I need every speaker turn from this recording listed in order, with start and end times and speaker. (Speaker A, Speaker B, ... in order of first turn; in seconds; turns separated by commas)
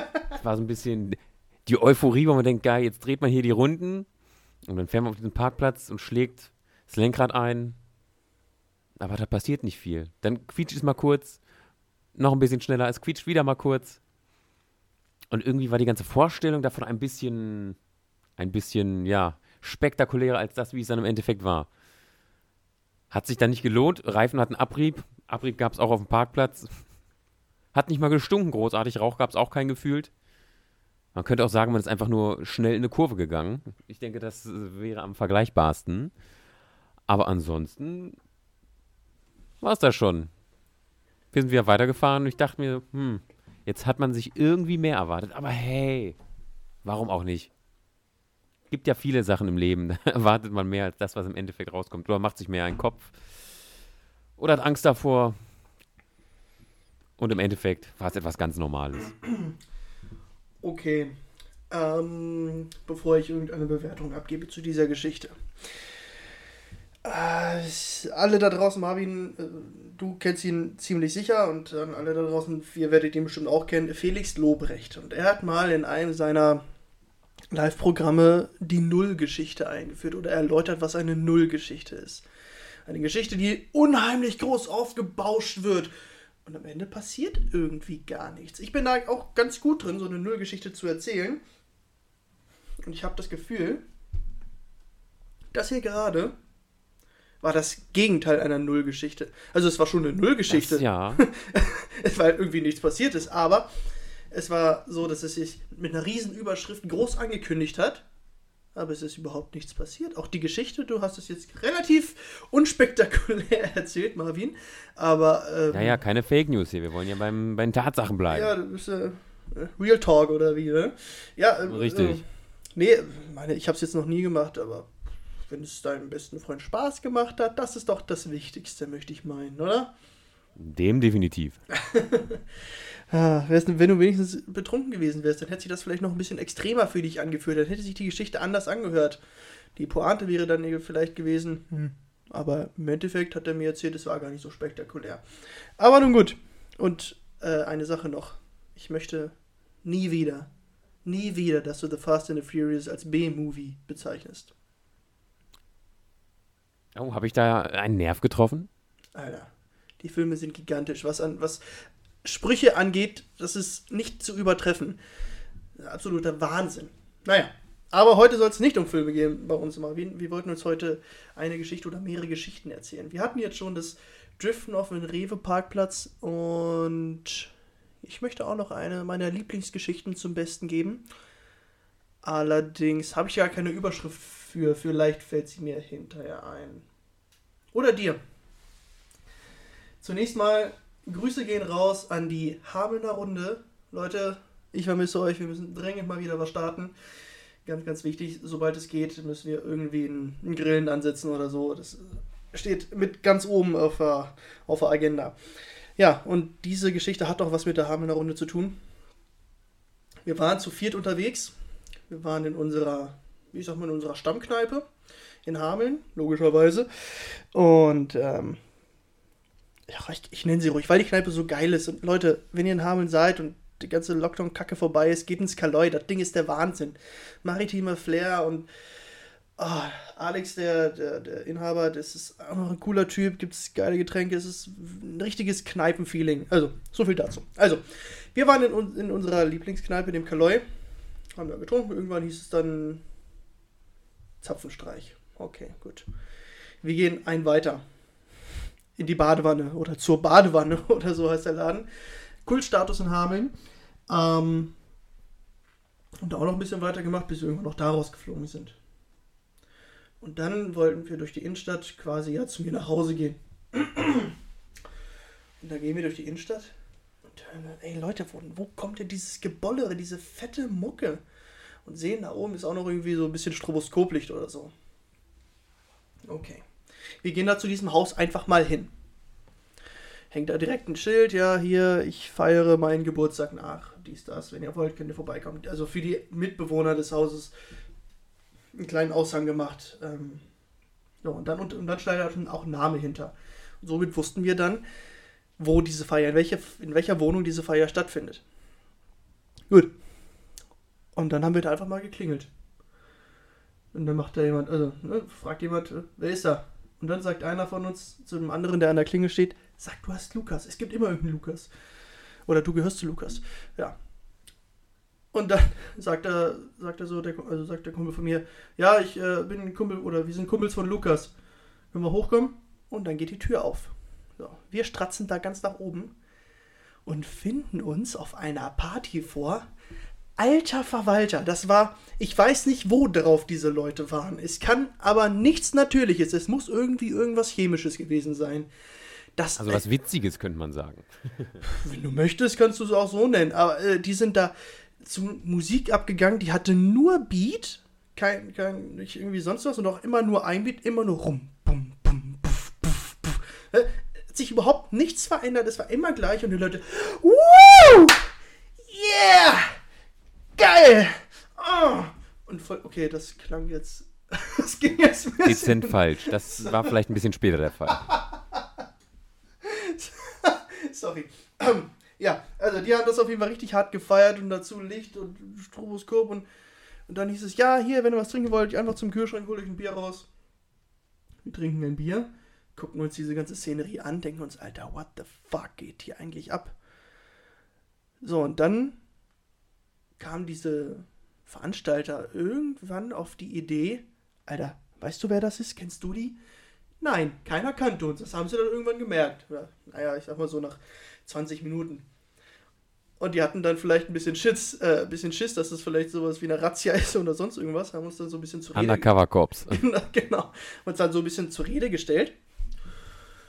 Speaker A: 0.3-4.1, Speaker A: 4.7-7.8, Speaker A: 9.0-11.4, Speaker A: 12.1-14.0, Speaker A: 15.3-17.8, Speaker A: 18.4-21.7, Speaker A: 23.1-26.8, Speaker A: 27.7-30.1, Speaker A: 31.1-36.1, Speaker A: 37.1-38.2, Speaker A: 39.6-40.3, Speaker A: 41.3-46.2, Speaker A: 46.8-47.5, Speaker A: 48.7-53.1, Speaker A: 54.4-55.4, Speaker A: 57.2-59.1, Speaker B: 60.6-61.1, Speaker B: 61.7-65.3, Speaker B: 67.0-76.6, Speaker B: 77.5-82.2, Speaker B: 82.8-85.9, Speaker B: 86.4-91.4, Speaker B: 92.8-93.8, Speaker B: 95.5-96.3, Speaker B: 97.4-103.7, Speaker A: 100.5-101.2, Speaker B: 104.3-108.0, Speaker B: 108.7-116.0, Speaker A: 115.7-118.5, Speaker B: 118.3-122.2, Speaker A: 121.7-122.2, Speaker B: 122.8-124.9, Speaker B: 125.5-129.9, Speaker A: 130.6-131.6, Speaker B: 131.7-132.4, Speaker B: 133.1-139.2, Speaker B: 139.8-145.2, Speaker B: 145.8-150.5, Speaker B: 151.0-154.5, Speaker A: 156.9-158.7, Speaker B: 159.1-161.6, Speaker B: 162.2-165.0, Speaker B: 165.8-177.5, Speaker B: 178.0-181.0, Speaker B: 182.2-186.8, Speaker B: 187.7-188.2, Speaker B: 190.0-196.9, Speaker B: 197.6-205.3, Speaker B: 206.0-208.8, Speaker B: 210.2-211.5, Speaker B: 212.1-214.8, Speaker B: 215.4-218.6, Speaker B: 219.9-228.7, Speaker B: 229.6-240.6, Speaker B: 241.4-243.0, Speaker B: 244.4-246.1, Speaker B: 246.8-247.8, Speaker B: 249.0-251.9, Speaker B: 252.4-253.5, Speaker B: 254.1-254.7, Speaker B: 256.2-258.8, Speaker B: 260.2-264.3, Speaker B: 265.6-266.7, Speaker B: 267.3-271.2, Speaker B: 271.9-274.7, Speaker B: 276.3-276.6, Speaker B: 277.2-278.9, Speaker B: 280.3-287.5, Speaker B: 288.8-290.4, Speaker B: 291.2-294.8, Speaker B: 295.6-298.4, Speaker B: 301.1-302.5, Speaker B: 303.9-311.7, Speaker B: 312.5-313.9, Speaker B: 315.3-321.3, Speaker B: 321.9-326.1, Speaker B: 327.1-329.6, Speaker B: 330.4-338.7, Speaker B: 339.4-339.8, Speaker A: 339.6-341.6, Speaker B: 341.6-358.3, Speaker B: 358.9-359.8, Speaker B: 360.6-366.9, Speaker A: 365.4-368.1, Speaker B: 368.0-368.6, Speaker B: 369.6-376.4, Speaker B: 377.1-380.3, Speaker B: 381.4-386.7, Speaker B: 388.2-389.0, Speaker B: 390.2-396.4, Speaker B: 397.0-402.1, Speaker B: 403.2-409.1, Speaker A: 408.7-409.8, Speaker B: 409.7-412.3